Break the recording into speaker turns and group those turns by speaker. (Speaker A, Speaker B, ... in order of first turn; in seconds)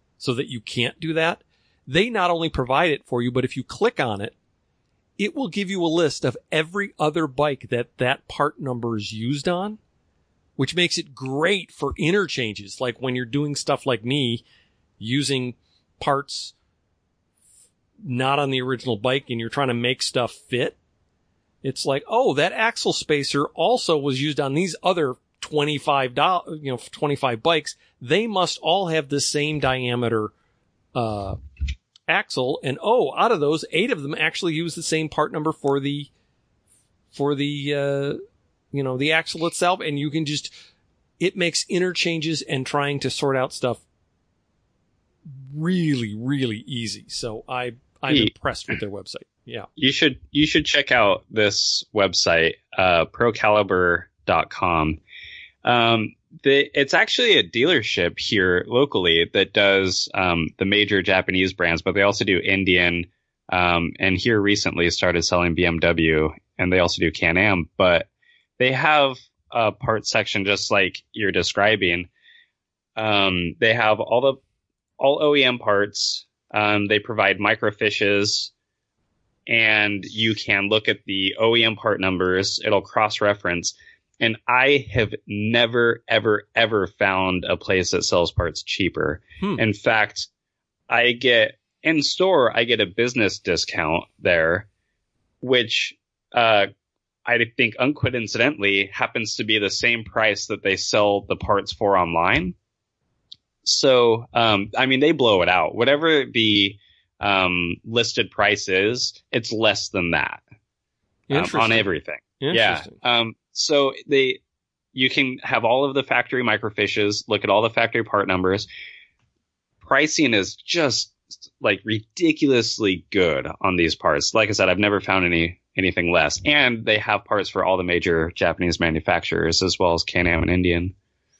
Speaker A: 0.2-4.3, 5.2-9.8, 10.6-14.4, 15.0-16.5, 18.0-20.8, 21.6-30.3, 30.9-31.4, 32.1-36.1, 37.1-38.2, 38.7-40.5, 41.2-43.8, 45.3-49.7, 111.3-111.9, 112.4-113.0
Speaker B: 49.8-55.0, 55.6-68.1, 68.6-72.1, 73.0-74.4, 75.0-78.5, 79.5-90.3, 90.9-94.7, 95.4-96.7, 97.3-102.5, 103.7-110.4, 111.3-114.4, 114.9-118.7, 119.8-130.9